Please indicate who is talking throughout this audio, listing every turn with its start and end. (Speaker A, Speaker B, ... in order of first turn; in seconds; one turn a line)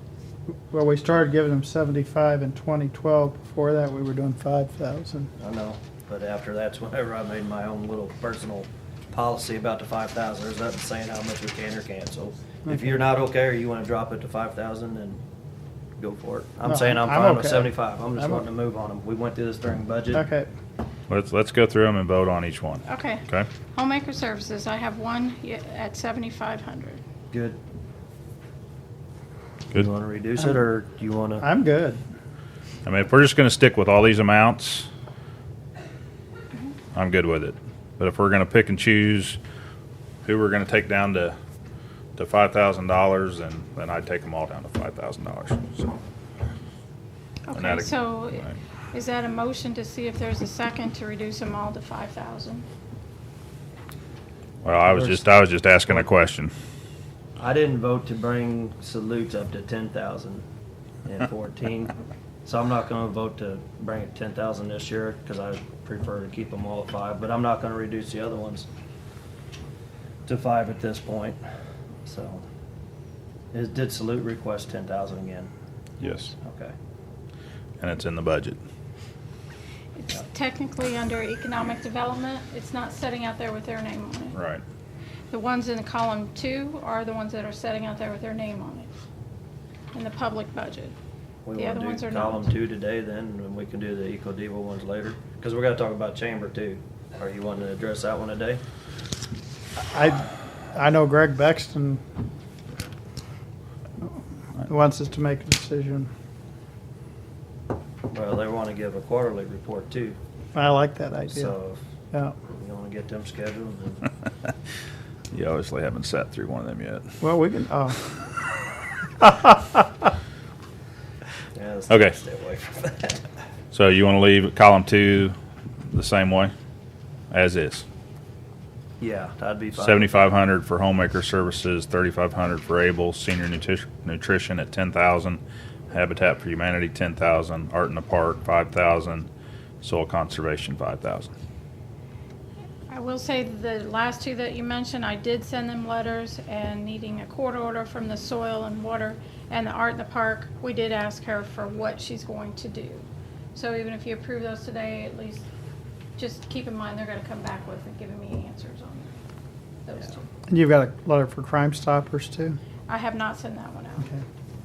Speaker A: 0.7-5.3
Speaker B: 5.4-15.2
Speaker B: 16.0-20.2
Speaker A: 16.7-18.4
Speaker A: 20.1-20.5
Speaker C: 21.1-23.5
Speaker D: 22.9-27.0
Speaker B: 27.3-27.6
Speaker B: 29.7-31.4
Speaker A: 31.4-32.0
Speaker C: 32.9-34.9
Speaker C: 36.9-39.4
Speaker C: 40.2-41.4
Speaker C: 42.2-46.0
Speaker D: 47.5-52.6
Speaker C: 47.5-48.5
Speaker C: 54.6-56.5
Speaker B: 57.4-60.4
Speaker B: 61.0-61.9
Speaker B: 62.5-68.7
Speaker B: 70.3-71.4
Speaker B: 72.0-72.4
Speaker B: 73.5-75.5
Speaker C: 76.0-76.3
Speaker B: 76.4-76.7
Speaker C: 77.8-78.6
Speaker D: 80.0-84.4
Speaker C: 84.3-84.6
Speaker D: 85.3-88.9
Speaker D: 89.9-91.0
Speaker B: 91.5-98.6
Speaker D: 91.5-92.5
Speaker A: 99.8-102.0
Speaker A: 104.6-106.1
Speaker B: 108.1-110.2
Speaker A: 110.5-111.5
Speaker B: 111.3-111.8
Speaker B: 112.4-114.1
Speaker C: 115.3-117.0
Speaker A: 117.2-118.0
Speaker A: 119.2-119.6
Speaker B: 121.5-123.2
Speaker C: 121.9-122.2
Speaker C: 123.7-125.3
Speaker C: 125.9-126.5
Speaker C: 127.3-127.8
Speaker B: 129.0-130.1
Speaker C: 129.8-139.3
Speaker C: 139.8-141.3
Speaker D: 142.9-155.5
Speaker D: 156.2-159.2
Speaker D: 159.8-160.2
Speaker A: 160.5-162.6
Speaker D: 162.9-164.1